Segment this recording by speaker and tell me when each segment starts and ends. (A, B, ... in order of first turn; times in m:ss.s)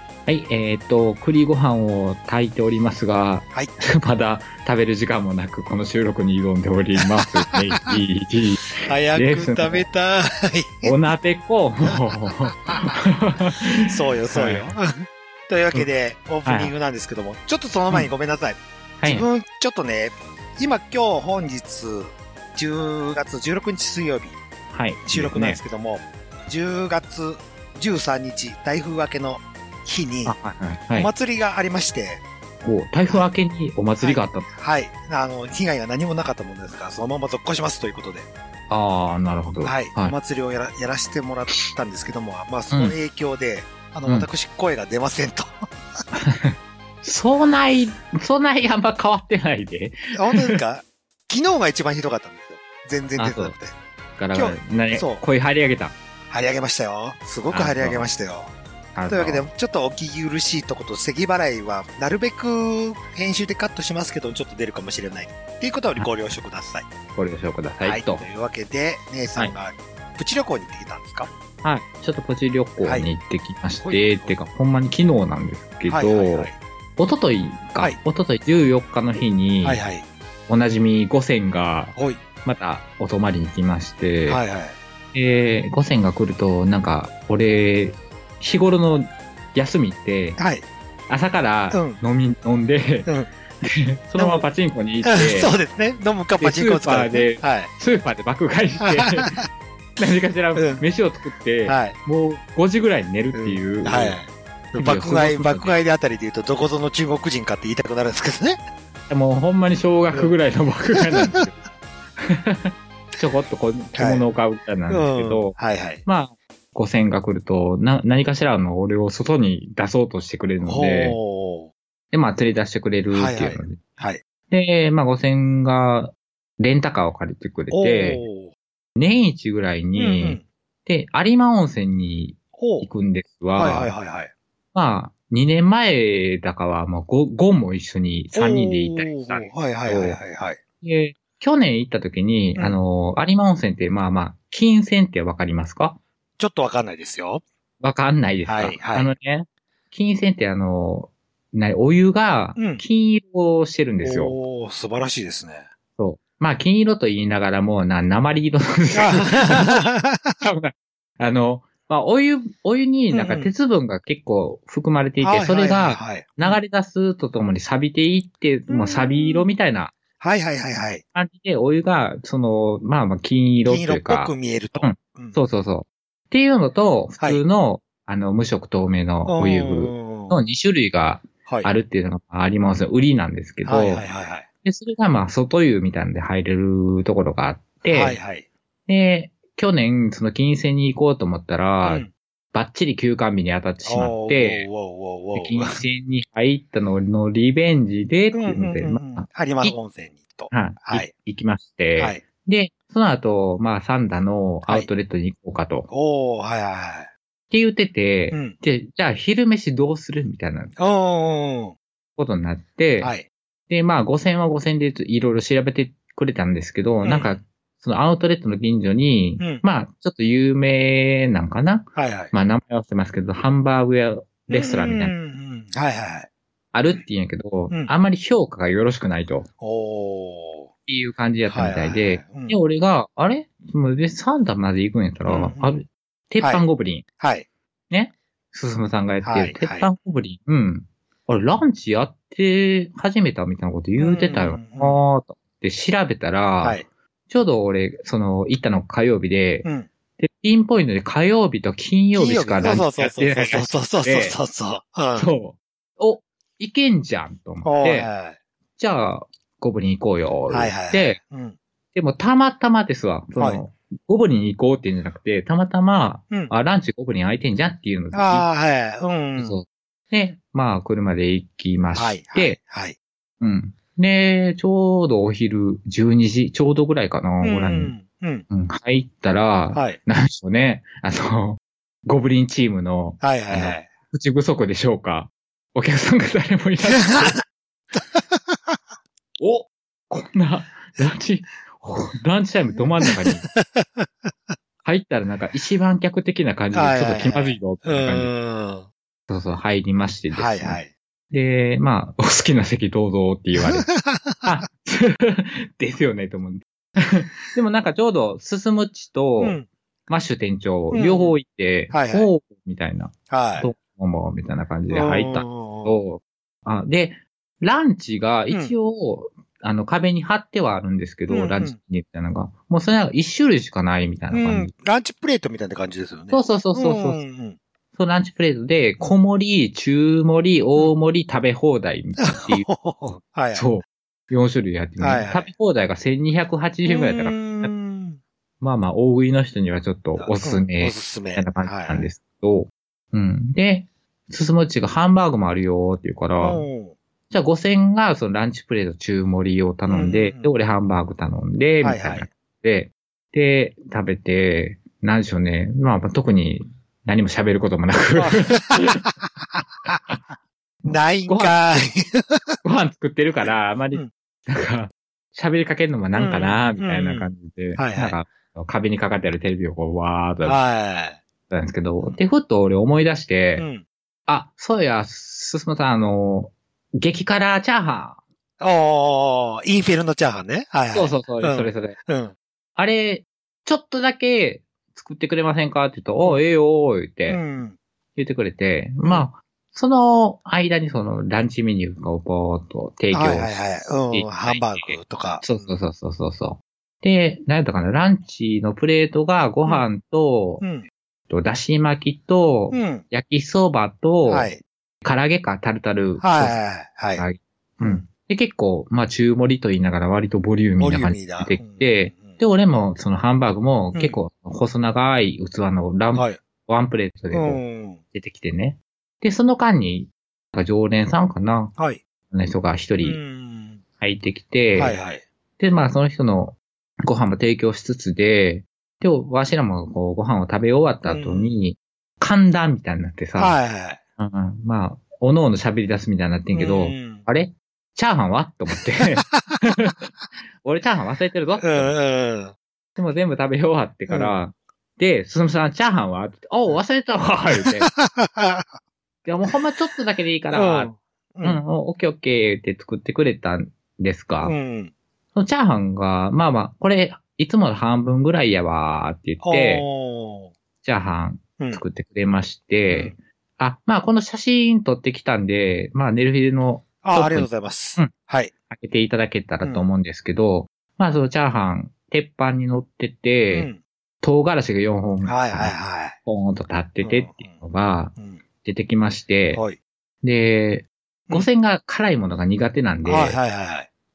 0:00.3-0:09.8 A
0:07.0-0:07.9 B
0:08.8-0:10.9 B
0:10.8-0:14.7 A
0:13.9-0:24.4 B
0:16.4-0:16.7 A
0:19.0-0:19.3 A
0:24.7-0:25.6 A
0:25.0-0:30.4 B
0:30.2-0:31.1 A
0:30.9-0:32.2 B
0:32.6-0:34.5 A
0:34.0-0:38.3 B
0:38.7-0:40.1 A
0:39.6-0:45.6 B
0:42.7-0:43.0 A
0:46.1-0:50.6 A
0:50.1-0:53.7 B
0:53.2-0:53.6 A
0:54.2-0:56.0 A
0:54.3-0:55.2 B
0:56.3-0:58.5 B
0:57.5-0:58.1 A
0:58.9-0:59.5 A
0:59.1-1:06.9 B
1:07.1-1:08.2 A
1:07.8-1:11.3 B
1:11.6-1:19.8 A
1:12.8-1:13.1 B
1:13.8-1:14.3 B
1:15.9-1:16.6 B
1:19.6-1:20.1 B
1:20.5-1:24.4 A
1:21.9-1:22.2 B
1:24.3-1:24.8 B
1:25.1-1:30.4 A
1:30.4-1:30.6 B
1:31.1-1:33.1 A
1:31.7-1:32.0 B
1:33.6-1:35.5 A
1:34.2-1:34.4 B
1:35.0-1:37.7 B
1:36.4-1:39.3 A
1:38.8-1:39.4 B
1:40.0-1:44.2 A
1:40.6-1:40.8 B
1:41.6-1:42.0 B
1:43.3-1:48.6 B
1:44.7-1:45.7 A
1:49.1-1:51.6 A
1:51.0-1:51.5 B
1:52.2-2:01.2 A
1:53.9-1:54.2 B
1:54.9-1:56.0 B
2:00.6-2:01.7 B
2:02.1-2:03.8 A
2:03.1-2:04.2 B
2:04.5-2:08.2 A
2:07.7-2:08.5 B
2:09.0-2:13.9 A
2:10.0-2:10.4 B
2:12.6-2:12.9 B
2:13.6-2:14.3 B
2:14.7-2:20.2 A
2:18.3-2:20.6 B
2:20.8-2:26.0 A
2:26.4-2:27.4 B
2:27.8-2:34.4 A
2:28.4-2:29.1 B
2:32.6-2:32.8 B
2:34.0-2:35.7 B
2:36.0-2:39.8 A
2:38.9-2:40.4 B
2:40.4-2:49.9 A
2:43.1-2:43.5 B
2:45.2-2:46.6 B
2:48.7-2:49.5 B
2:50.2-2:51.0 B
2:51.1-3:04.0 A
2:53.6-2:55.4 B
2:59.3-3:00.4 B
3:03.6-3:04.4 B
3:04.6-3:08.2 A
3:07.8-3:08.4 B
3:08.9-3:14.7 A
3:11.8-3:12.1 B
3:13.8-3:15.8 B
3:15.3-3:19.8 A
3:18.3-3:21.1 B
3:20.5-3:25.9 A
3:22.0-3:22.2 B
3:25.9-3:27.1 B
3:27.5-3:30.7 A
3:30.8-3:31.8 B
3:32.2-3:33.1 A
3:33.0-3:33.3 B
3:33.7-3:45.1 A
3:37.0-3:37.4 B
3:41.9-3:42.3 B
3:44.5-3:46.3 B
3:46.7-3:49.5 A
3:49.6-3:50.7 B
3:50.9-3:57.0 A
3:51.5-3:52.6 B
3:55.2-3:55.7 B
3:57.2-3:57.5 B
3:57.9-4:09.7 A
3:59.2-3:59.9 B
4:04.0-4:05.0 B
4:09.6-4:09.9 B
4:10.2-4:14.4 A
4:12.1-4:15.3 B
4:15.2-4:18.1 A
4:17.6-4:18.4 B
4:18.8-4:21.2 A
4:20.5-4:21.6 B
4:21.9-4:28.5 A
4:28.1-4:29.5 B
4:29.4-4:32.6 A
4:31.9-4:33.0 B
4:33.4-4:37.9 A
4:37.4-4:38.4 B
4:38.5-4:47.4 A
4:39.7-4:40.0 B
4:43.2-4:43.9 B
4:46.9-4:47.4 B
4:47.9-4:48.8 B
4:49.4-4:53.5 A
4:53.2-4:54.0 B
4:54.8-4:58.3 A
4:56.7-4:58.9 B
4:59.3-5:00.8 A
5:00.3-5:00.9 B
5:01.3-5:03.9 A
5:03.6-5:04.6 B
5:04.4-5:24.7 A
5:09.4-5:09.7 B
5:10.9-5:11.3 B
5:11.9-5:12.3 B
5:13.3-5:13.7 B
5:14.9-5:16.0 B
5:21.3-5:21.7 B
5:24.3-5:27.6 B
5:26.3-5:27.2 A
5:27.9-5:37.7 A
5:32.2-5:33.7 B
5:35.0-5:35.5 B
5:36.9-5:38.2 B
5:38.6-5:46.6 A
5:40.2-5:42.1 B
5:46.4-5:46.9 B
5:47.3-5:59.1 A
5:49.9-5:50.5 B
5:51.8-5:52.3 B
5:58.1-5:59.1 B
6:00.8-6:01.8 A
6:00.8-6:02.6 B
6:02.6-6:10.6 A
6:03.4-6:04.1 B
6:06.1-6:08.2 B
6:10.4-6:11.2 B
6:11.5-6:13.6 A
6:13.6-6:13.8 B
6:14.3-6:18.2 A
6:18.6-6:22.3 B
6:20.9-6:22.0 A
6:22.8-6:27.4 A
6:27.3-6:27.8 B
6:28.1-6:33.6 A
6:33.1-6:35.6 B
6:34.1-6:40.6 A
6:40.6-6:40.9 B
6:41.3-6:44.5 A
6:42.7-6:43.0 B
6:44.2-6:44.6 B
6:45.0-6:46.6 A
6:46.2-6:47.2 B
6:47.1-6:57.6 A
6:50.8-6:52.4 B
6:56.1-6:56.4 B
6:57.3-6:58.0 B
6:58.1-7:01.7 A
7:02.3-7:03.2 A
7:03.0-7:03.8 B
7:04.0-7:05.0 A
7:04.7-7:05.2 B
7:05.6-7:13.5 A
7:11.0-7:11.5 B
7:13.4-7:14.0 B
7:14.2-7:22.0 A
7:16.5-7:17.2 B
7:19.2-7:19.5 B
7:21.6-7:22.5 B
7:23.0-7:27.9 A
7:24.1-7:24.3 B
7:27.5-7:28.7 B
7:29.2-7:34.5 A
7:30.5-7:31.6 B
7:34.4-7:34.9 B
7:35.3-7:39.8 A
7:39.4-7:40.5 B
7:40.8-7:48.1 A
7:47.0-7:48.5 B
7:48.7-7:53.7 A
7:53.5-7:53.8 B
7:54.2-7:55.7 A
7:55.2-7:56.2 B
7:56.2-7:59.6 A
7:57.0-7:57.6 B
7:58.2-7:58.4 B
7:59.5-7:59.8 B
8:00.2-8:03.4 A
8:03.0-8:03.9 B